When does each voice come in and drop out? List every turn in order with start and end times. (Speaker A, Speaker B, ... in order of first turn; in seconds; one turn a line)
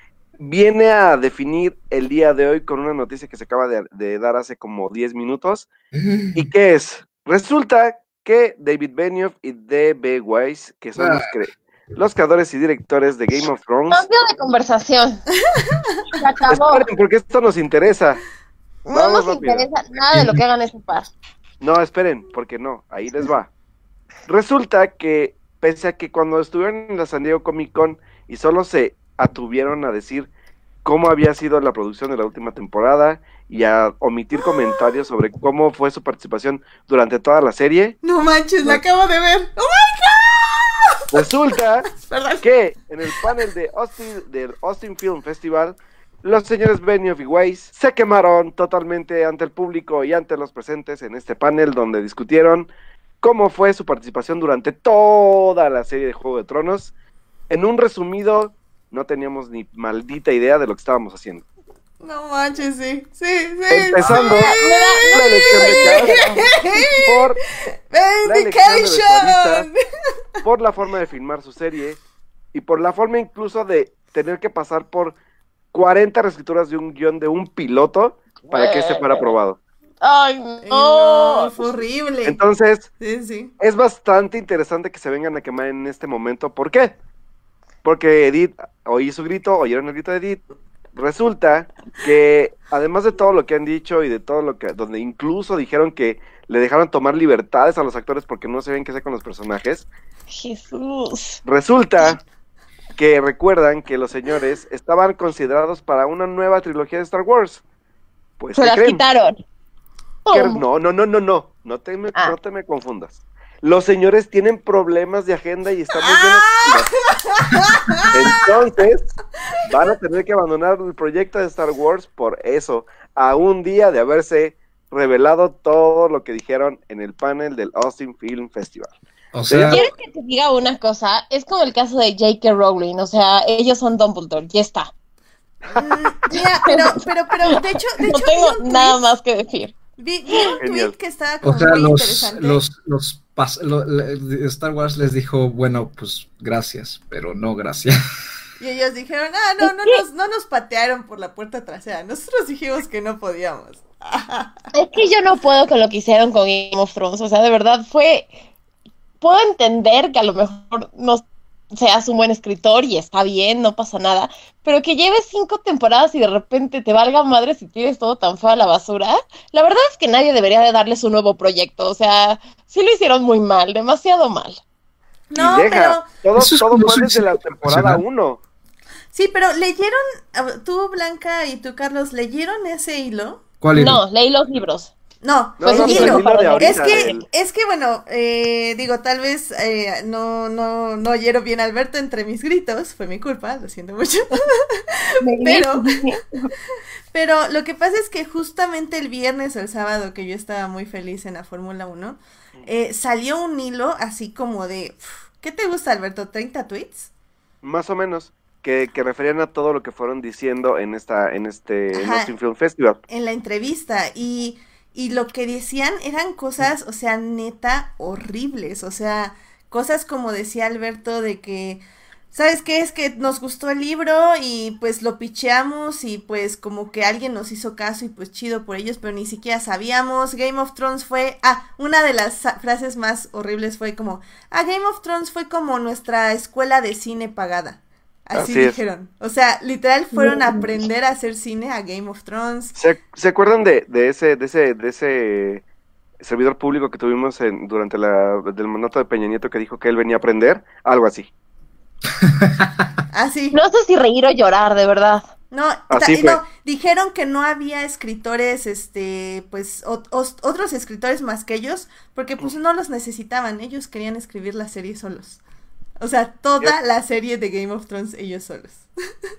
Speaker A: 0.4-5.7
Speaker B: 5.9-6.4
Speaker A: 6.3-14.0
Speaker B: 10.9-11.3
Speaker C: 13.9-15.2
Speaker D: 15.4-16.0
Speaker C: 16.1-16.9
Speaker A: 16.5-18.2
Speaker C: 18.8-21.1
Speaker A: 18.9-19.7
Speaker B: 20.1-20.4
Speaker A: 21.6-23.5
Speaker A: 24.3-30.3
Speaker A: 30.8-38.0
Speaker D: 34.4-34.9
Speaker D: 38.0-41.2
Speaker A: 41.1-52.7
Speaker D: 41.9-42.4
Speaker A: 53.2-56.9
Speaker A: 57.5-61.4
Speaker D: 62.0-67.3
Speaker A: 63.7-64.5
Speaker C: 64.2-66.5
Speaker A: 65.1-67.4
Speaker D: 67.9-69.7
Speaker A: 68.2-69.7
Speaker A: 70.4-72.0
Speaker A: 72.5-75.2
Speaker A: 75.7-79.6
Speaker C: 78.5-79.3
Speaker C: 80.0-81.7
Speaker D: 80.6-82.4
Speaker A: 82.2-82.9
Speaker D: 83.0-83.5
Speaker A: 83.6-86.9
Speaker A: 87.8-90.4
Speaker A: 90.9-99.8
Speaker C: 100.3-101.4
Speaker A: 101.4-102.2
Speaker A: 103.0-107.6
Speaker A: 108.4-109.0
Speaker C: 108.5-109.4
Speaker C: 110.2-110.6
Speaker A: 110.3-117.0
Speaker D: 116.0-118.3
Speaker A: 118.1-128.9
Speaker B: 129.3-129.8
Speaker A: 129.5-129.8
Speaker C: 129.7-134.9
Speaker D: 135.7-139.0
Speaker C: 136.3-139.8
Speaker D: 140.0-142.6
Speaker C: 140.3-140.5
Speaker A: 140.6-140.9
Speaker B: 141.4-148.0
Speaker D: 148.6-154.6
Speaker C: 149.6-150.0
Speaker C: 154.7-158.3
Speaker C: 159.2-174.6
Speaker D: 175.3-176.1
Speaker A: 175.3-178.4
Speaker B: 176.3-178.0
Speaker D: 179.1-183.4
Speaker B: 183.6-184.0
Speaker C: 183.7-184.9
Speaker D: 185.2-195.8
Speaker A: 185.6-187.2
Speaker C: 185.6-187.2
Speaker C: 195.2-196.5
Speaker D: 197.1-207.1
Speaker A: 207.6-213.0
Speaker D: 211.9-212.3
Speaker D: 213.1-242.7
Speaker A: 238.3-238.8
Speaker C: 240.1-240.7
Speaker A: 242.8-245.6
Speaker A: 246.2-251.3
Speaker B: 252.2-252.7
Speaker D: 253.1-253.6
Speaker C: 253.5-255.3
Speaker D: 255.5-265.4
Speaker A: 255.9-256.4
Speaker D: 266.0-268.9